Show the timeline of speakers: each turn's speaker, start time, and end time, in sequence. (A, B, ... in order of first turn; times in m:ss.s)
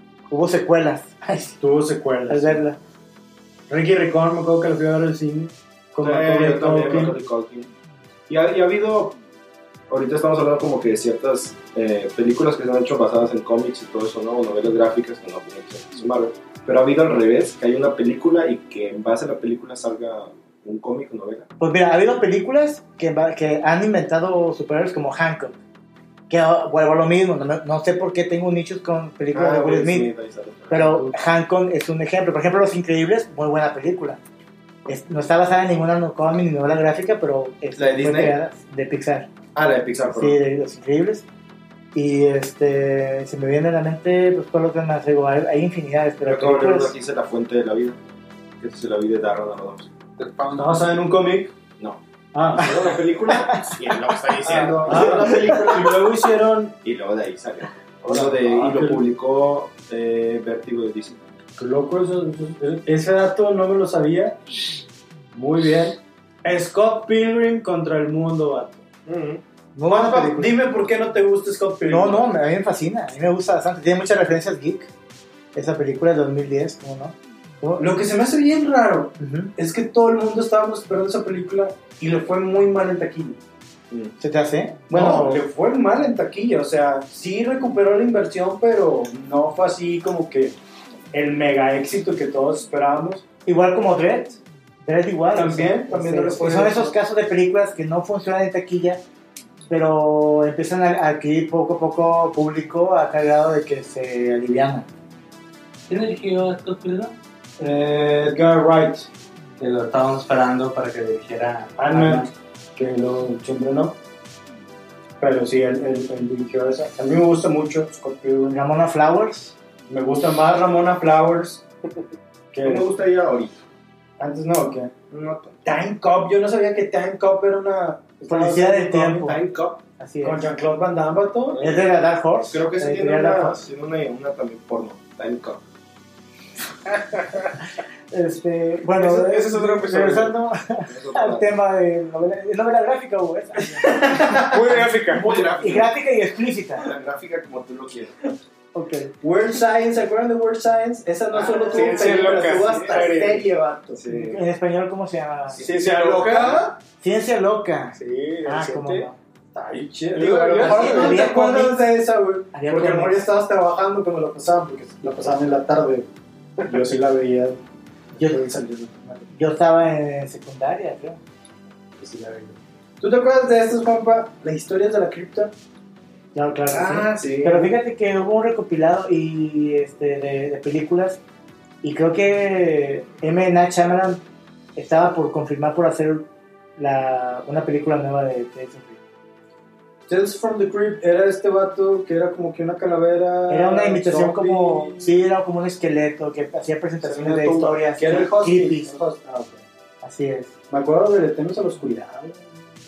0:00.3-0:01.6 A
0:01.6-0:02.6 B
0:02.3-0:02.8 A
0:03.7-0:07.2 B
0:06.0-0:07.7 C
0:08.3-0:09.2 C
0:09.9-0:21.5 C
0:21.6-0:25.6 A
0:26.3-0:30.1 A
0:29.3-0:31.1 C
0:30.7-0:34.2 A
0:30.8-0:31.1 B
0:34.9-0:39.3 A
0:37.8-0:38.4 C
0:39.6-0:40.4 C
0:40.1-0:41.2 A
0:42.0-0:46.9 A
0:46.2-0:48.0 C
0:48.6-0:49.9 C
0:50.2-0:50.9 D
0:50.6-0:51.5 B
0:52.3-0:53.6 B
0:52.6-0:56.0 C
0:54.4-0:54.8 D
0:54.6-0:56.7 B
0:56.8-1:01.2 C
0:58.1-0:59.0 B
1:01.6-1:04.4 B
1:05.3-1:08.8 B
1:09.1-1:09.4 C
1:09.8-1:10.5 A
1:09.9-1:12.3 B
1:11.8-1:14.9 A
1:15.6-1:17.9 A
1:17.8-1:23.4 B
1:19.2-1:19.5 A
1:24.2-1:25.4 A
1:24.9-1:30.6 B
1:31.1-1:33.3 B
1:33.5-1:39.0 A
1:35.3-1:37.0 B
1:39.7-1:44.9 A
1:45.9-1:47.2 E
1:47.6-1:49.1 B
1:49.6-1:52.3 E
1:51.8-1:54.0 B
1:55.2-1:58.6 B
1:58.5-1:59.5 A
1:59.9-2:01.6 B
2:02.5-2:02.9 B
2:02.6-2:03.6 C
2:04.2-2:04.9 B
2:05.1-2:05.6 C
2:05.6-2:09.4 B
2:08.3-2:09.4 A
2:09.2-2:09.8 C
2:10.0-2:10.5 A
2:10.2-2:11.6 B
2:11.5-2:11.9 C
2:11.6-2:13.6 A
2:12.5-2:15.6 C
2:18.1-2:24.8 A
2:18.9-2:20.3 C
2:20.9-2:21.5 C
2:23.8-2:24.4 B
2:24.5-2:25.3 D
2:25.1-2:25.9 C
2:25.6-2:26.8 A
2:26.8-2:28.2 C
2:28.7-2:29.1 A
2:29.2-2:34.0 B
2:31.3-2:33.1 C
2:31.6-2:33.5 D
2:34.0-2:34.4 C
2:34.1-2:35.6 A
2:35.6-2:36.8 B
2:35.6-2:36.6 D
2:37.0-2:39.2 A
2:38.0-2:39.1 D
2:39.5-2:46.1 B
2:40.2-2:41.4 D
2:40.2-2:40.8 C
2:40.6-2:41.8 A
2:42.5-2:43.2 A
2:46.7-2:47.6 B
2:48.2-2:48.6 A
2:48.2-2:49.3 B
2:49.3-2:51.2 A
2:52.0-2:55.5 B
2:56.4-3:01.2 A
2:56.7-2:57.7 C
3:01.8-3:04.2 A
3:04.8-3:09.0 A
3:10.1-3:15.2 B
3:13.5-3:19.0 A
3:17.0-3:19.6 B
3:20.0-3:20.5 A
3:20.7-3:22.6 B